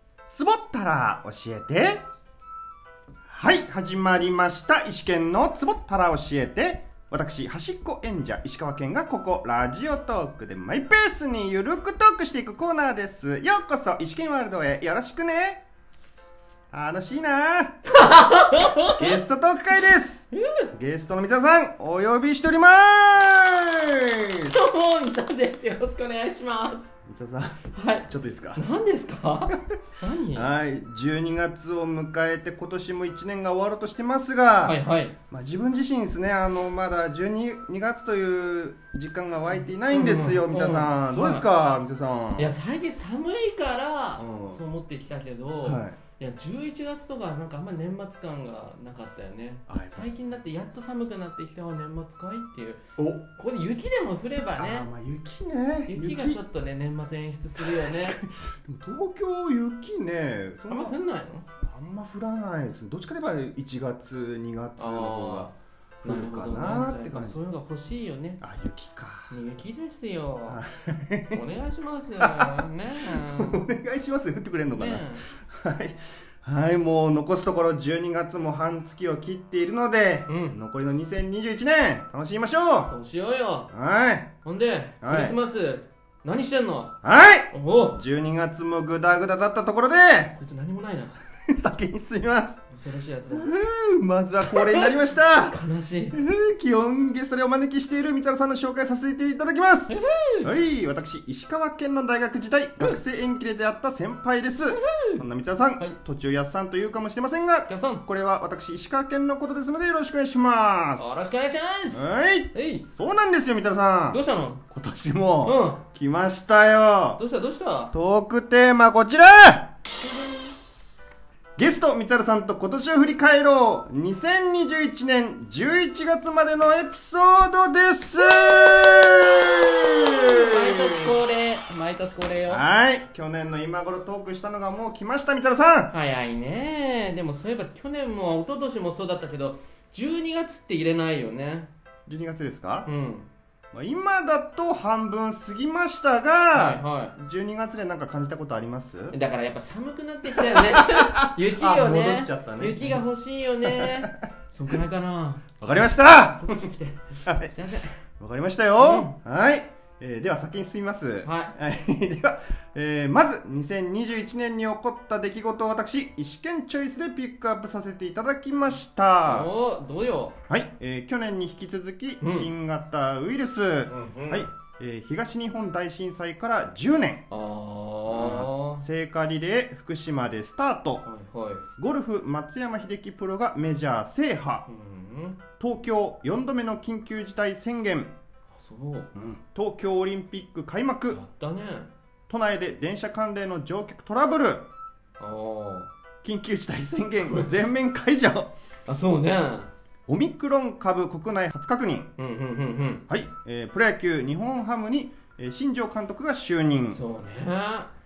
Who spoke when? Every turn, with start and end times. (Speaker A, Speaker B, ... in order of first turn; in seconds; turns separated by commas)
Speaker A: 0.3-2.0, Speaker A: 3.3-15.6, Speaker A: 16.7-17.9, Speaker B: 17.9-19.1, Speaker A: 18.9-24.5, Speaker B: 20.3-20.7, Speaker B: 24.5-26.9, Speaker A: 27.1-28.6, Speaker B: 27.7-30.5, Speaker A: 30.3-42.6, Speaker B: 34.6-35.1, Speaker B: 39.6-41.5, Speaker B: 42.4-52.8, Speaker A: 44.2-44.6, Speaker A: 45.6-46.0, Speaker A: 49.7-50.2, Speaker A: 53.0-53.2, Speaker B: 53.4-54.9, Speaker A: 54.6-56.4, Speaker B: 55.9-58.2, Speaker A: 57.6-61.0, Speaker B: 60.7-61.5, Speaker A: 61.6-65.5, Speaker B: 64.8-68.4, Speaker A: 66.0-67.4, Speaker A: 68.4-69.3, Speaker B: 69.3-70.6, Speaker A: 70.5-71.4, Speaker B: 71.3-73.6, Speaker A: 72.2-82.9, Speaker B: 74.7-75.2, Speaker B: 80.3-80.6, Speaker B: 82.8-83.7, Speaker A: 83.7-84.3, Speaker B: 84.4-87.0, Speaker A: 85.0-85.4, Speaker A: 87.0-90.3, Speaker B: 87.5-88.0, Speaker B: 90.3-91.2, Speaker A: 91.5-92.6, Speaker B: 92.7-93.5, Speaker A: 93.3-95.6, Speaker B: 94.4-96.2, Speaker A: 96.1-111.1, Speaker B: 99.9-100.5, Speaker B: 104.7-105.2, Speaker B: 107.7-108.0, Speaker B: 111.0-112.9, Speaker A: 111.9-117.2, Speaker B: 114.1-114.6, Speaker B: 115.4-115.8, Speaker B: 117.2-117.9, Speaker A: 117.9-119.7, Speaker B: 120.0-120.5, Speaker A: 121.6-131.2, Speaker B: 128.3-132.6, Speaker A: 132.5-135.9, Speaker B: 135.9-141.7, Speaker A: 142.1-142.9, Speaker B: 142.9-143.3, Speaker A: 143.7-149.2, Speaker B: 146.5-147.2, Speaker B: 149.1-158.0, Speaker A: 150.3-153.0, Speaker A: 153.8-154.2, Speaker A: 155.6-156.7, Speaker A: 157.3-157.5, Speaker A: 158.2-169.5, Speaker B: 158.8-159.1, Speaker B: 161.2-161.6, Speaker B: 169.2-170.4, Speaker A: 170.5-177.3, Speaker B: 172.2-172.5, Speaker B: 173.9-174.5, Speaker B: 177.3-178.9, Speaker A: 178.1-181.1, Speaker B: 181.0-181.7, Speaker A: 181.8-184.7, Speaker B: 184.7-185.4, Speaker A: 185.6-188.1, Speaker B: 188.5-189.1, Speaker A: 189.2-191.2, Speaker B: 191.1-191.9, Speaker A: 192.3-194.7, Speaker B: 195.2-195.9, Speaker A: 196.2-198.5, Speaker B: 197.2-197.6, Speaker B: 198.9-199.7, Speaker A: 200.1-202.1, Speaker B: 202.2-203.1, Speaker A: 203.1-207.0, Speaker B: 206.9-207.9